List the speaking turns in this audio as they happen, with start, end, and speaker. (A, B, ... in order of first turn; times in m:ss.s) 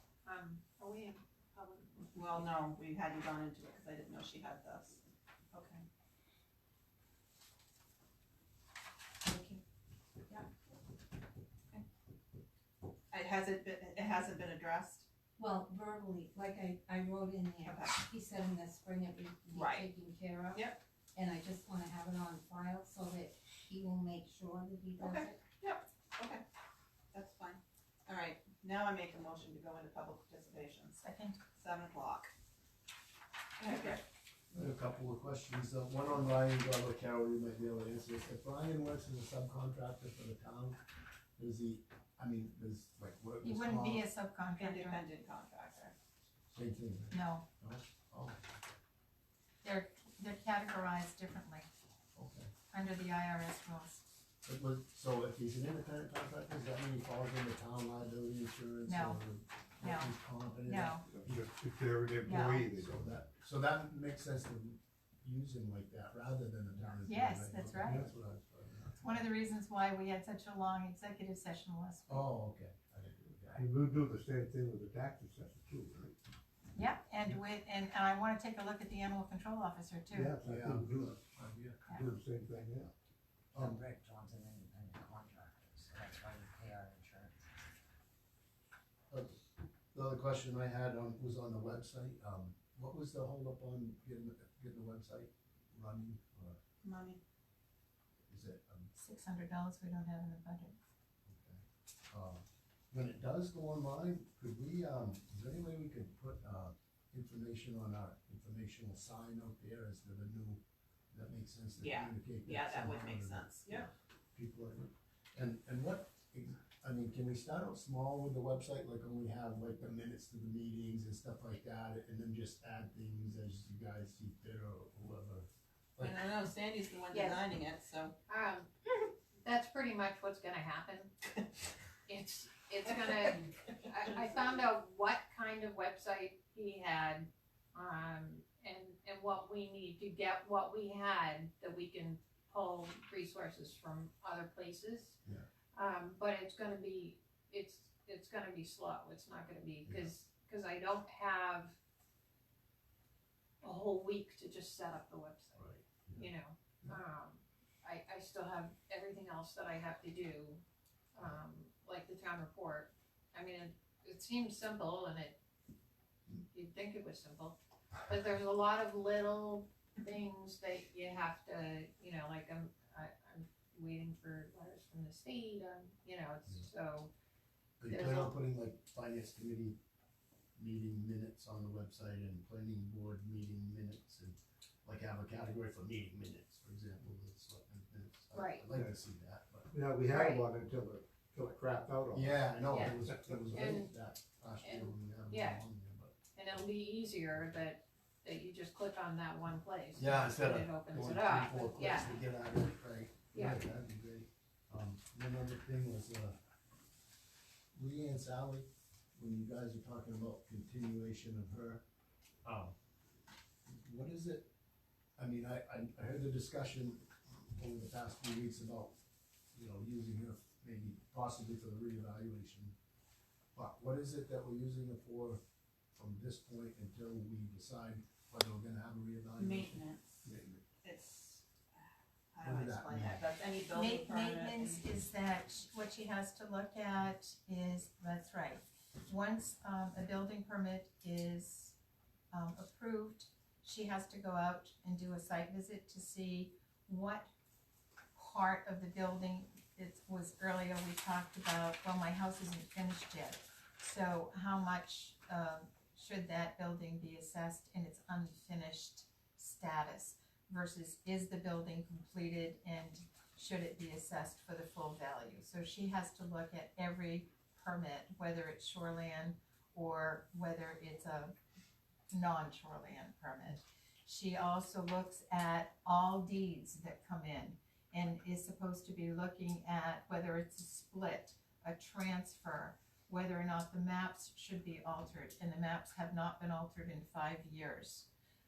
0:00.2-0:01.9 A
0:02.1-0:05.8 B
0:13.1-0:15.0 B
0:15.4-0:25.4 C
0:17.6-0:18.0 B
0:19.5-0:20.0 B
0:20.5-0:20.8 B
0:25.0-0:26.4 B
0:27.1-0:31.0 B
0:31.0-0:31.4 D
0:31.6-0:32.3 B
0:33.6-0:34.0 B
0:33.7-0:34.0 D
0:34.5-0:40.8 E
0:41.4-0:44.0 E
0:43.4-0:45.0 D
0:44.6-0:45.9 B
0:46.5-0:48.6 E
0:47.1-0:47.4 D
0:49.6-0:51.7 D
0:52.1-0:52.5 E
0:52.7-0:54.0 D
0:54.4-1:01.4 E
0:58.8-0:59.2 D
0:59.8-1:01.0 D
1:01.1-1:03.2 F
1:02.2-1:02.7 D
1:02.7-1:09.2 E
1:07.0-1:08.1 D
1:07.8-1:08.1 F
1:09.0-1:12.2 D
1:12.1-1:13.6 E
1:13.5-1:16.2 F
1:16.7-1:20.4 D
1:20.1-1:21.2 F
1:20.4-1:21.8 E
1:21.8-1:22.9 F
1:23.5-1:23.8 E
1:23.5-1:27.4 G
1:29.1-1:29.4 E
1:29.9-1:36.6 E
1:36.8-1:37.2 B
1:38.3-1:38.9 E
1:38.9-1:40.8 D
1:41.2-2:06.2 E
1:51.8-1:53.9 B
2:06.0-2:08.1 B
2:08.3-2:11.1 A
2:12.1-2:25.1 A
2:25.7-2:31.6 A
2:33.6-2:35.6 A
2:35.6-2:36.3 E
2:36.2-2:37.3 A
2:37.8-2:40.6 A
2:41.1-2:45.3 A
2:46.5-2:47.6 A
2:48.1-2:57.1 A
2:57.8-2:59.8 E
2:57.8-2:58.3 A
3:00.6-3:09.7 E
3:08.3-3:08.6 A
3:09.7-3:13.6 F
3:10.1-3:10.5 A
3:12.1-3:16.2 E
3:12.7-3:13.0 A
3:13.5-3:13.9 A
3:14.6-3:15.6 A
3:16.3-3:22.1 A
3:20.0-3:26.4 E
3:23.3-3:23.6 A
3:27.7-3:31.8 E
3:32.4-3:32.7 E
3:33.6-3:34.5 E
3:35.2-3:38.9 E
3:39.5-3:42.7 E
3:43.5-3:45.4 E
3:45.9-3:49.8 E
3:49.4-3:50.2 B
3:50.2-3:50.6 F
3:50.8-3:54.9 B
3:52.4-3:53.2 E
3:53.7-4:01.8 D
4:02.3-4:07.3 D
4:08.1-4:31.3 D
4:32.1-4:48.1 D